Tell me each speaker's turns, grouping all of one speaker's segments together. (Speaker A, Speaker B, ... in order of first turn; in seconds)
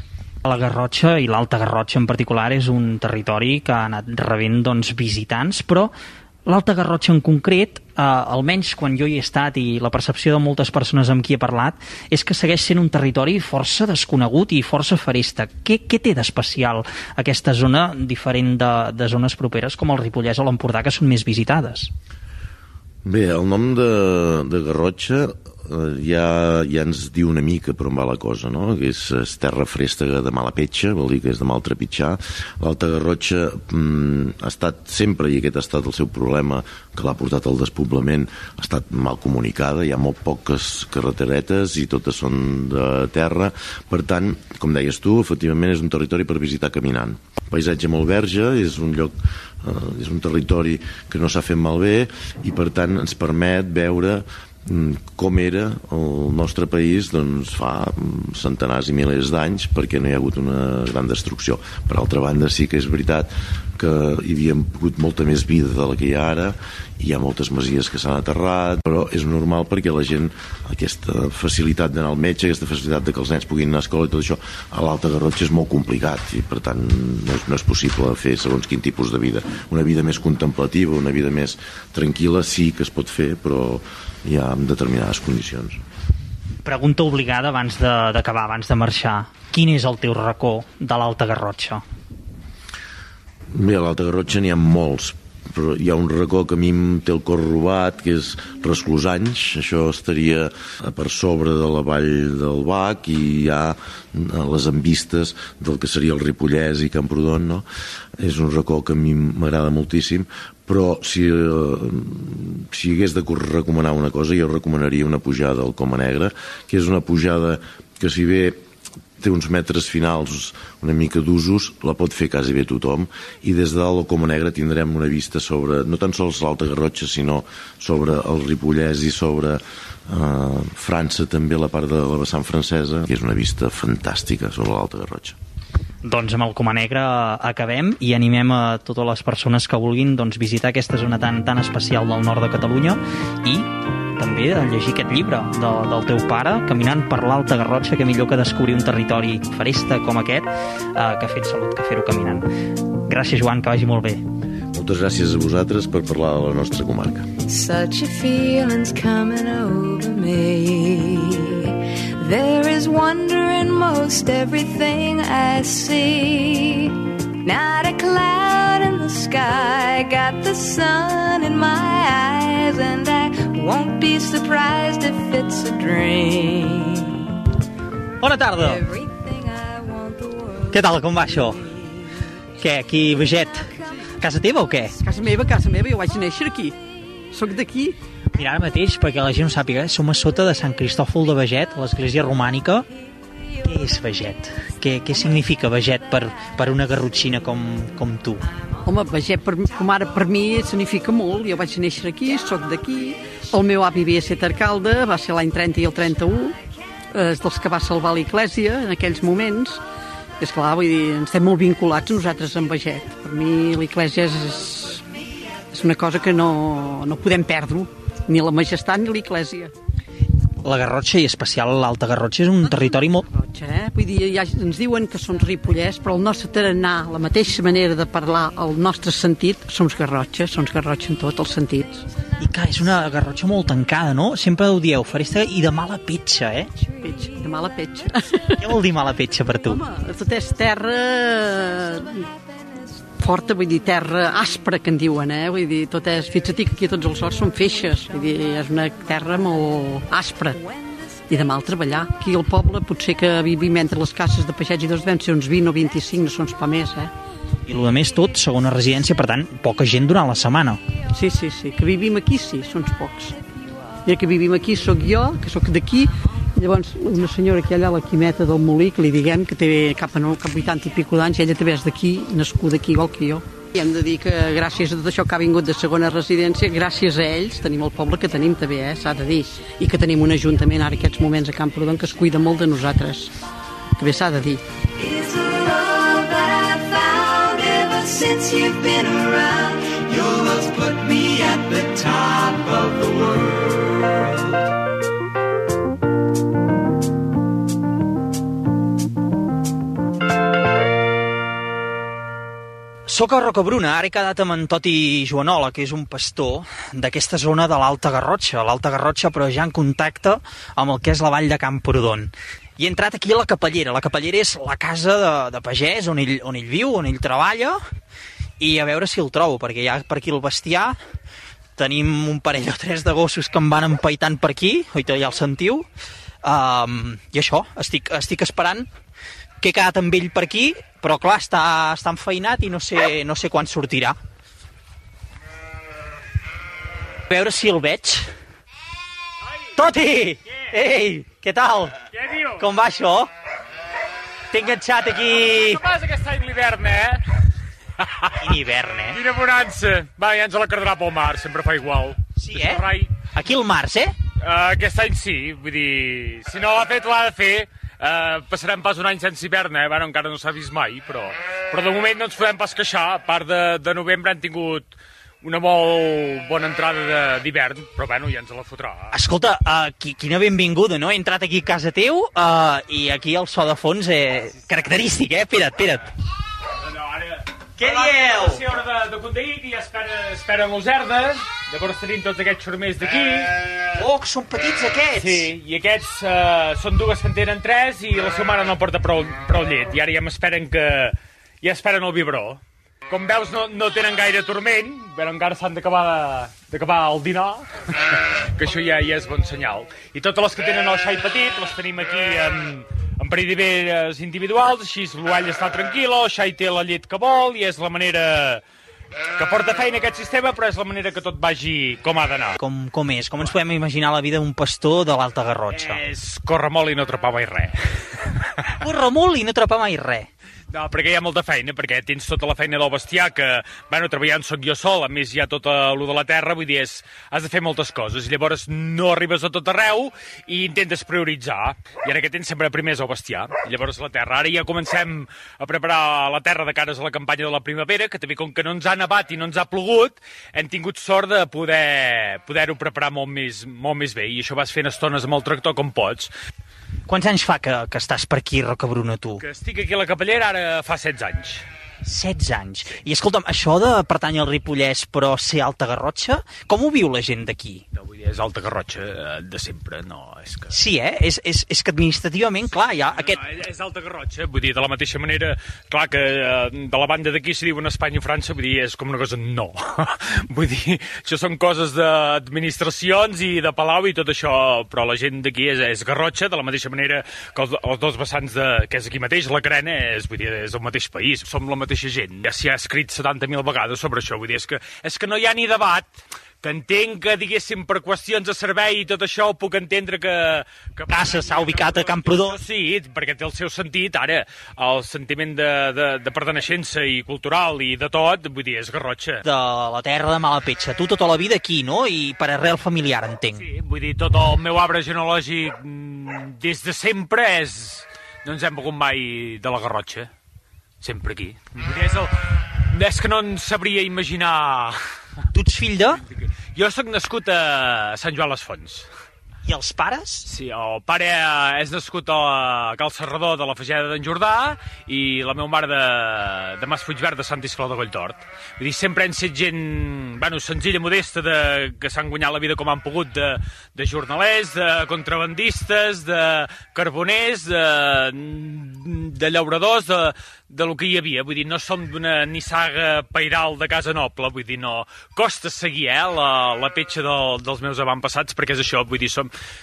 Speaker A: 0.5-6.0, 6.5-21.9, 86.7-91.8, 136.0-152.5, 153.0-154.2, 178.2-178.8, 180.7-181.7, 182.6-183.7, 184.2-184.9, 188.4-192.9, 193.7-198.4, 220.6-223.3, 232.4-236.7, 238.6-239.8, 257.7-260.8, 303.1-317.8, 318.6-321.0, 321.8-325.9, 326.4-328.9, 329.6-334.2, 337.3-338.3, 339.8-342.0, 342.6-343.3, 344.5-345.8, 348.4-349.2, 352.4-354.1, 369.1-376.1, 377.8-378.6, 384.0-385.5, 412.6-416.0, 418.8-420.3, 447.1-449.4, 452.0-457.8, 460.7-463.4, 491.1-492.6, 499.4-503.6, 515.5-516.2, 519.6-520.5
Speaker B: 23.1-85.8, 93.5-107.7, 108.2-118.6, 119.2-135.4, 154.7-157.3
Speaker C: 157.5-177.2, 178.6-180.8, 285.0-293.7
Speaker D: 185.0-186.8, 187.3-188.0, 198.8-206.6, 207.1-209.8, 210.4-215.0, 215.7-219.7, 222.7-232.0, 237.0-238.6, 239.8-242.3, 243.2-250.6, 251.3-257.1, 261.1-263.4, 264.1-283.3, 284.0-284.6
Speaker E: 342.1-342.6, 345.4-347.2, 348.0-348.4, 349.1-353.1, 354.4-364.9, 365.4-369.1, 376.8-383.6, 385.2-408.6, 409.4-412.6, 415.7-418.2, 420.7-446.3, 449.4-451.6, 457.9-460.8, 463.2-499.4, 503.6-510.3, 511.0-512.3, 512.9-515.0, 516.3-519.1, 520.5-549.5